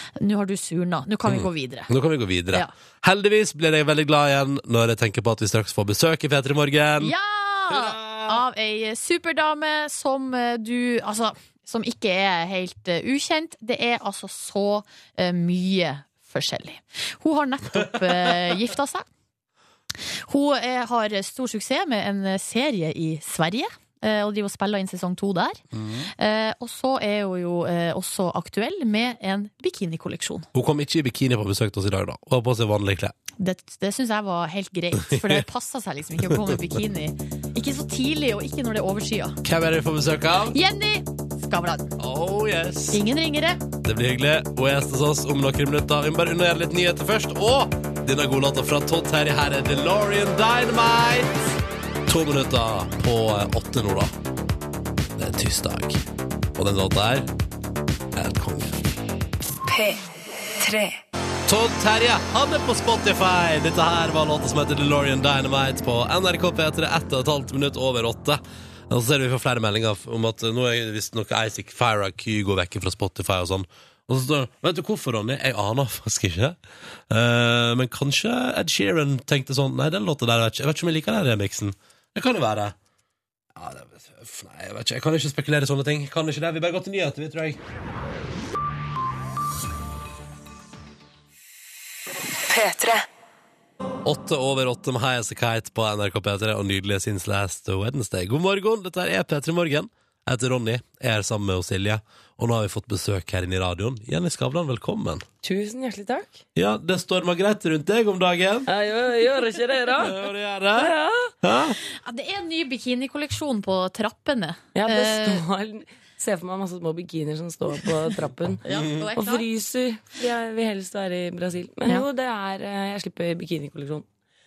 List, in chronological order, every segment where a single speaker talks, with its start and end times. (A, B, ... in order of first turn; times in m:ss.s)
0:00.2-0:01.9 A
0:01.2-0:07.1 B
0:07.0-0:19.1 A
0:07.7-0:08.4 B
0:20.3-0:25.6 A
0:25.7-0:26.1 B
0:26.2-0:30.5 A
0:30.5-0:33.1 B
0:33.4-0:39.4 A
0:35.0-0:35.4 B
0:39.4-0:40.6 B
0:40.5-0:41.9 A
0:42.0-0:43.0 B
0:42.9-0:43.6 A
0:43.8-0:51.4 B
0:52.1-0:54.1 B
0:55.2-0:56.0 B
0:56.6-0:57.3 B
0:58.1-0:58.8 B
1:01.4-1:16.6 B
1:17.1-1:22.8 B
1:23.5-1:27.6 B
1:34.0-1:45.2 B
1:45.4-1:46.4 C
1:46.6-1:48.7 B
1:48.7-1:50.2 C
1:50.0-1:51.8 B
1:50.8-1:51.3 C
1:51.9-1:55.4 A
1:54.7-2:04.0 C
1:58.6-1:59.4 A